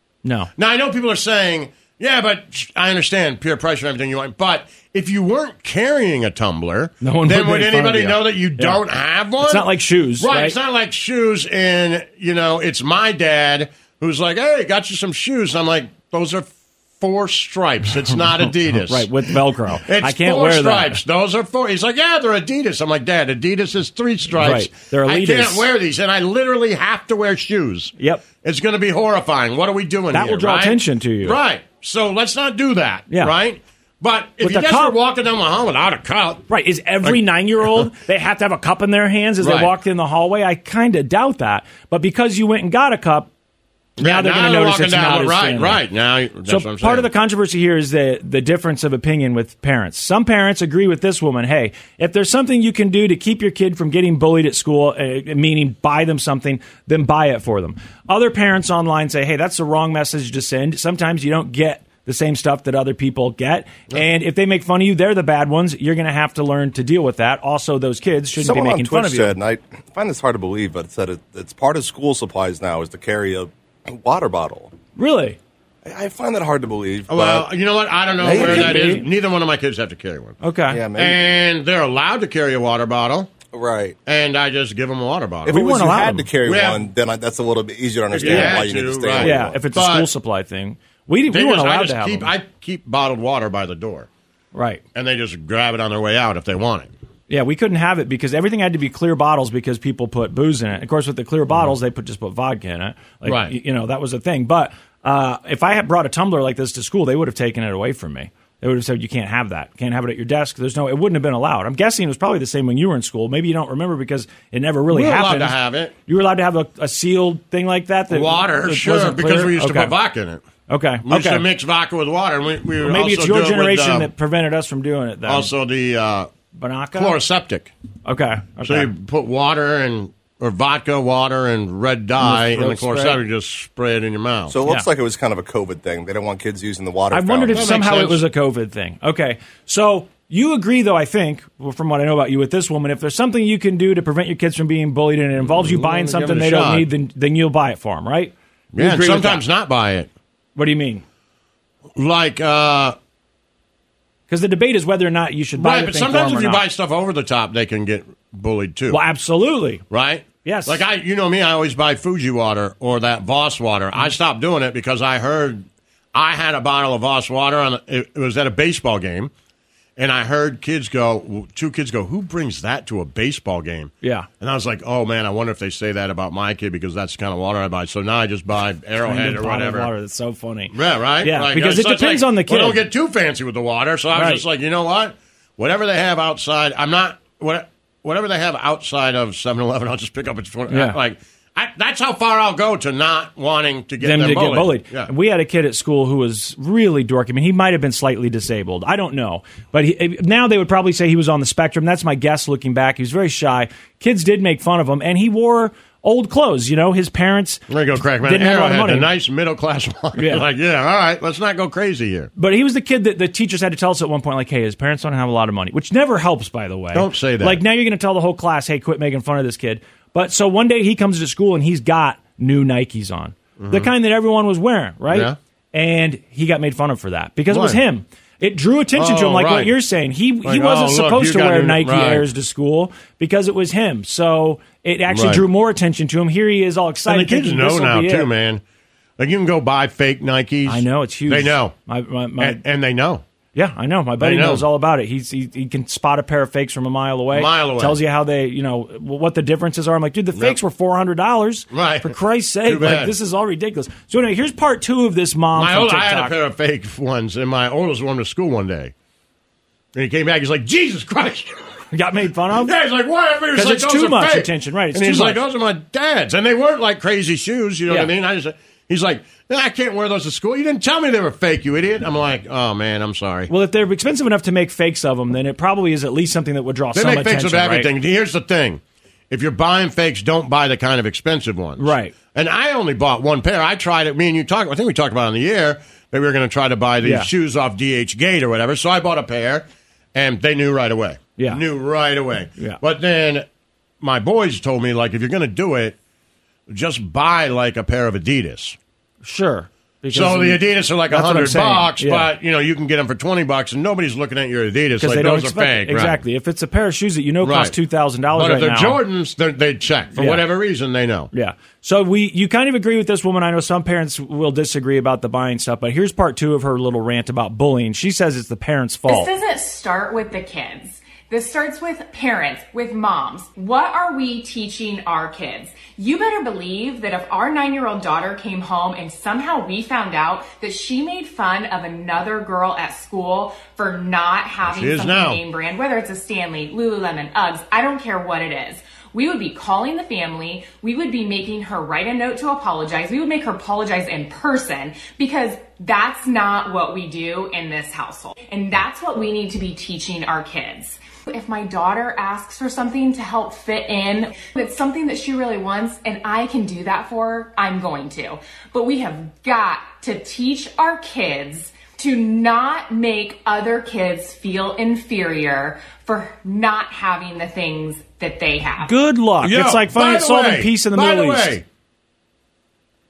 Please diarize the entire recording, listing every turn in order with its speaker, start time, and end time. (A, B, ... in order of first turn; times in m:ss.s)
0:00.2-0:00.5 A
0:00.6-0:19.1 B
0:07.0-0:08.8 A
0:09.4-0:10.6 A
0:18.8-0:21.0 A
0:19.7-0:36.4 B
0:24.4-0:25.6 A
0:28.0-0:28.2 A
0:30.1-0:31.4 A
0:34.4-0:34.9 A
0:36.5-0:43.3 A
0:37.0-0:37.9 B
0:39.4-0:39.7 B
0:44.0-0:47.1 B
0:44.0-0:45.8 A
0:46.5-1:09.4 A
1:08.4-1:14.7 C
1:15.0-1:15.4 A
1:15.8-1:17.5 C
1:17.1-1:20.4 B
1:18.2-1:18.9 C
1:18.2-1:19.0 A
1:20.4-1:20.8 A
1:20.7-1:21.3 C
1:21.0-1:23.3 B
1:23.5-1:24.0 C
1:24.0-1:25.6 B
1:25.4-1:26.3 A
1:25.4-1:29.6 C
1:26.4-1:26.8 B
1:28.1-1:30.1 B
1:28.2-1:28.6 A
1:29.2-1:32.3 A
1:31.3-1:34.1 B
1:34.5-1:34.8 A
1:34.9-1:36.9 B
1:37.3-1:59.9 A
1:43.2-1:43.5 B
1:54.9-1:55.9 B
1:58.1-2:00.4 B
2:00.7-2:01.4 A
2:01.0-2:04.1 B
2:02.8-2:05.5 A
2:05.2-2:06.3 B
2:06.5-2:07.2 A
2:06.9-2:07.7 B
2:08.0-2:08.9 A
2:08.6-2:14.6 B
2:12.2-2:13.2 A
2:14.5-2:17.7 C
2:17.1-2:29.4 A
2:17.5-2:18.2 B
2:25.5-2:26.9 B
2:28.7-2:30.1 B
2:30.6-2:31.0 A
2:32.0-2:33.0 B
2:34.3-2:36.6 A
2:35.6-2:39.0 B
2:38.9-2:39.8 A
2:39.9-2:49.3 B
2:40.4-2:40.8 A
2:50.0-2:59.9 B
2:54.0-2:54.3 A
2:59.0-3:02.8 A
3:00.7-3:15.1 B
3:04.1-3:04.4 A
3:10.7-3:11.0 A
3:14.0-3:27.7 A
3:27.7-3:32.3 B
3:28.2-3:29.1 A
3:30.2-3:30.4 A
3:32.4-3:58.3 A
3:36.9-3:37.6 B
3:43.6-3:43.9 B
3:45.1-3:45.4 B
3:47.5-3:47.8 B
3:49.0-3:49.8 B
3:50.4-3:52.2 B
3:55.1-3:55.4 B
3:57.0-3:58.6 B
3:59.2-4:01.7 B
4:00.6-4:02.6 A
4:02.4-4:03.2 B
4:03.5-4:16.3 A
4:04.2-4:04.6 B
4:07.3-4:08.0 B
4:11.7-4:13.1 B
4:15.6-4:18.9 B
4:19.9-4:21.6 B
4:21.9-4:22.7 A
4:22.5-4:33.5 B
4:23.5-4:25.4 A
4:33.5-4:37.9 A
4:36.9-4:53.4 B
4:41.8-4:42.1 A
4:47.0-4:47.3 A
4:54.0-4:56.0 B
4:56.7-4:58.8 B
4:59.2-5:02.3 A
5:00.1-5:06.2 B
5:05.0-5:09.0 A
5:07.4-5:07.7 B
5:08.3-5:11.3 B
5:10.2-5:10.4 A
5:11.3-5:19.3 A
5:19.0-6:08.9 D
5:34.6-5:35.4 B
6:08.8-6:11.6 A
6:09.4-6:11.6 B